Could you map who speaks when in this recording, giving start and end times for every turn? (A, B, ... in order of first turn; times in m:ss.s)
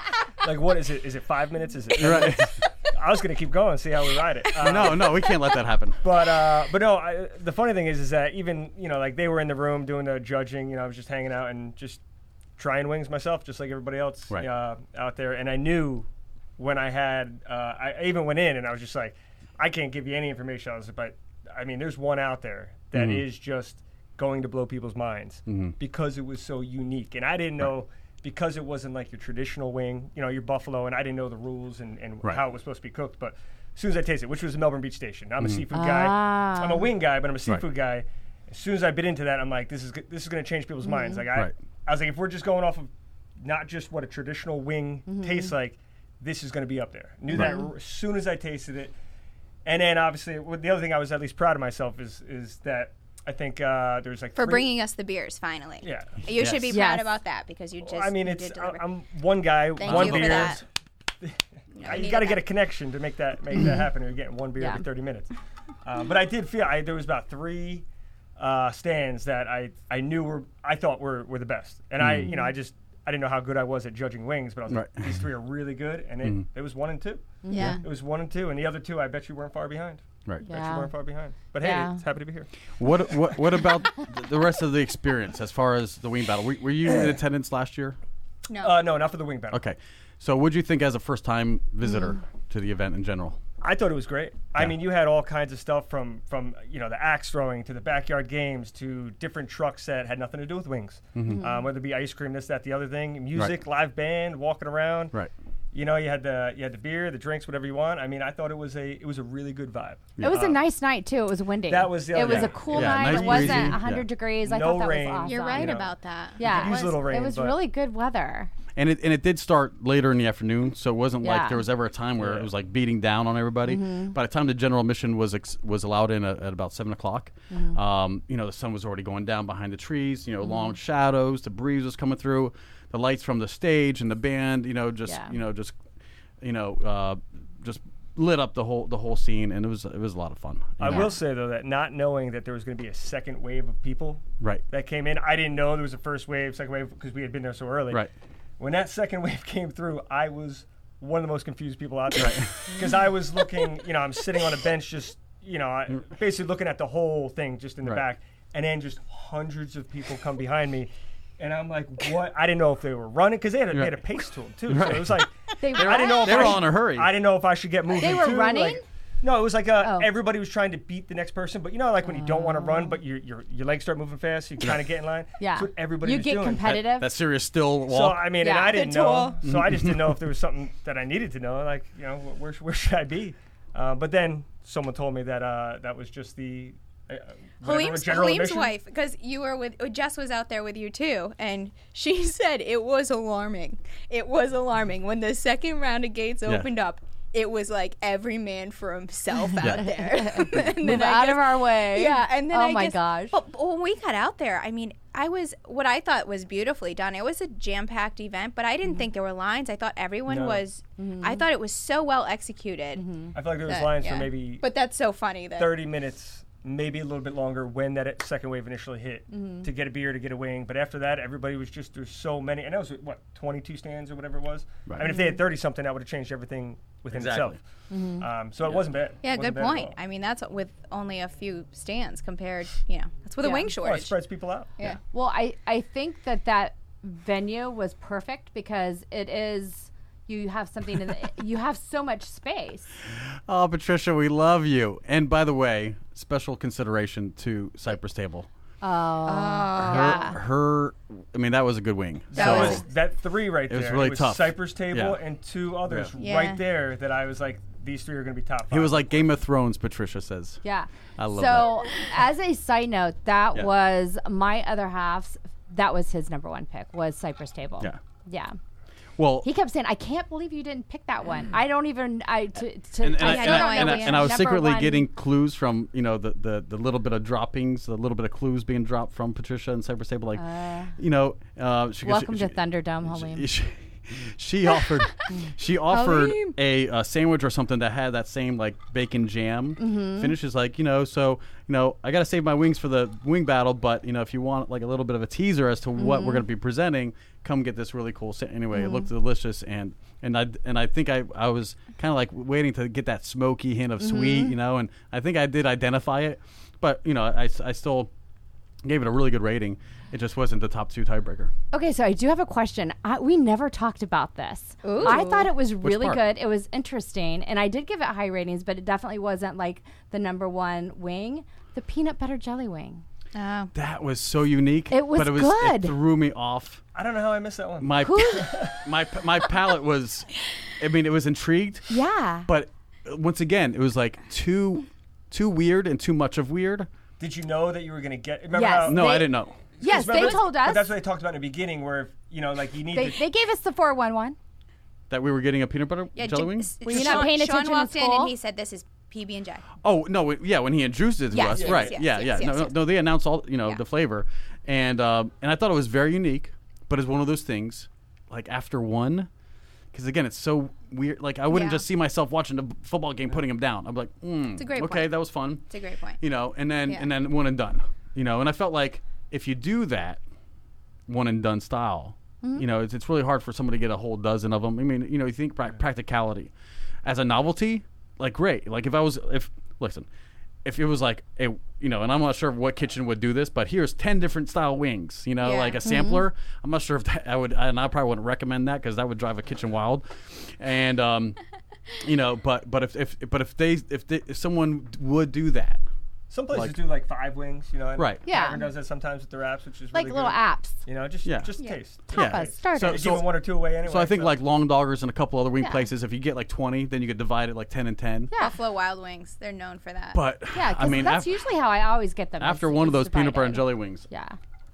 0:00.4-0:05.2 A
0:02.0-0:02.5 B
0:04.6-0:06.0 B
0:06.0-0:12.0 A
0:12.6-0:48.9 A
0:22.9-0:23.2 B
0:25.5-0:25.8 B
0:35.7-0:36.9 C
0:40.8-0:41.2 C
0:45.1-0:45.5 C
0:47.4-0:47.7 C
0:49.6-0:54.7 A
0:54.4-0:58.8 D
0:55.8-0:56.2 A
0:56.4-0:56.7 B
0:56.7-0:57.1 C
0:57.8-1:00.6 A
0:59.8-1:00.6 D
0:59.8-1:00.6 B
1:01.2-1:05.3 A
1:01.8-1:02.4 D
1:05.8-1:07.8 A
1:08.4-1:22.5 A
1:12.0-1:12.3 B
1:14.7-1:15.2 B
1:17.4-1:17.8 C
1:17.5-1:17.8 D
1:20.5-1:20.9 C
1:21.6-1:22.0 C
1:22.8-1:28.0 B
1:28.5-1:28.8 D
1:28.6-1:29.6 A
1:29.5-1:33.4 B
1:33.6-1:45.1 A
1:41.2-1:41.4 B
1:41.3-1:41.6 C
1:43.4-1:43.6 B
1:45.7-1:50.6 A
1:50.2-1:55.8 C
1:51.7-1:53.8 A
1:52.2-1:54.1 B
1:54.4-1:57.6 A
1:55.2-1:57.1 D
1:56.4-1:58.5 C
1:58.8-2:15.8 B
2:01.2-2:01.6 C
2:02.2-2:02.5 A
2:03.7-2:04.2 C
2:07.5-2:07.8 C
2:10.4-2:10.7 C
2:15.1-2:15.4 C
2:16.4-2:21.1 B
2:20.8-2:28.1 A
2:28.6-2:56.8 A
2:32.2-2:32.9 B
2:43.7-2:44.0 B
2:44.7-2:47.1 B
2:45.6-2:46.7 C
2:48.0-2:48.8 C
2:49.8-2:50.1 C
2:52.1-2:52.9 C
2:55.4-2:57.1 C
2:56.6-2:58.3 B
2:57.9-3:08.8 A
2:58.4-2:58.8 C
2:58.7-2:59.4 D
2:59.4-3:00.2 B
3:07.6-3:33.0 D
3:19.6-3:19.8 B
3:19.7-3:23.4 C
3:30.3-3:30.6 A
3:31.0-3:31.4 C
3:33.0-3:33.3 C
3:33.4-3:34.6 A
3:33.6-3:35.8 D
3:35.6-3:47.6 A
3:39.3-3:39.7 C
3:45.1-3:45.4 C
3:47.1-3:47.6 B
3:47.9-3:48.3 C
3:48.2-3:50.0 A
3:49.2-3:54.1 D
3:53.4-3:53.7 C
3:53.8-3:54.7 A
3:55.1-4:02.9 C
4:03.1-4:08.5 B
4:08.8-4:10.4 C
4:09.3-4:10.3 D
4:09.8-4:12.8 B
4:12.3-4:19.3 A
4:12.3-4:12.8 D
4:13.7-4:15.2 B
4:16.2-4:16.6 D
4:18.7-4:20.6 B
4:20.6-4:28.6 C
4:21.2-4:21.8 B
4:29.2-4:29.5 B
4:29.4-4:35.1 C
4:33.0-4:40.4 B
4:33.2-4:34.4 D
4:40.4-4:41.0 C
4:41.0-5:08.1 B
4:42.0-4:43.5 C
4:45.9-4:46.6 D
4:49.8-4:50.4 C
4:56.0-4:56.4 C
4:58.7-4:59.1 C
5:04.0-5:04.6 C
5:08.8-5:11.5 B
5:11.7-5:23.0 C
5:14.8-5:15.5 D
5:15.8-5:16.2 B
5:23.3-5:23.7 D
5:23.7-5:26.8 B
5:24.9-5:26.0 C
5:26.9-5:28.8 A
5:27.8-5:31.9 B
5:28.0-5:28.5 C
5:31.9-5:32.5 C
5:32.5-5:36.9 B
5:37.2-5:43.3 A
5:38.5-5:41.0 C
5:38.9-5:39.6 B
5:42.9-5:44.4 C
5:45.1-5:47.3 B
5:46.2-5:49.7 D
5:46.8-5:48.3 C
5:49.8-5:59.3 B
5:51.3-5:52.8 D
5:51.5-5:52.0 A
5:59.9-6:05.7 B
6:01.5-6:01.8 D
6:04.6-6:05.2 D
6:05.7-6:06.2 D
6:06.2-6:10.2 B
6:11.1-6:16.5 B
6:17.0-6:20.1 B
6:20.6-6:31.4 B
6:25.4-6:25.8 D
6:25.8-6:26.2 C
6:32.0-6:35.8 B
6:36.3-6:44.4 A
6:36.5-6:36.8 B
6:38.0-6:38.3 B
6:38.2-6:38.7 C
6:39.9-6:40.8 C
6:41.2-6:41.5 B
6:42.1-6:43.3 B
6:42.1-6:43.2 C
6:43.8-6:48.3 B
6:45.6-6:45.9 C
6:48.3-6:48.6 C
6:48.4-6:50.2 D
6:50.1-6:51.3 B
6:50.5-6:54.4 C
6:52.4-6:54.1 B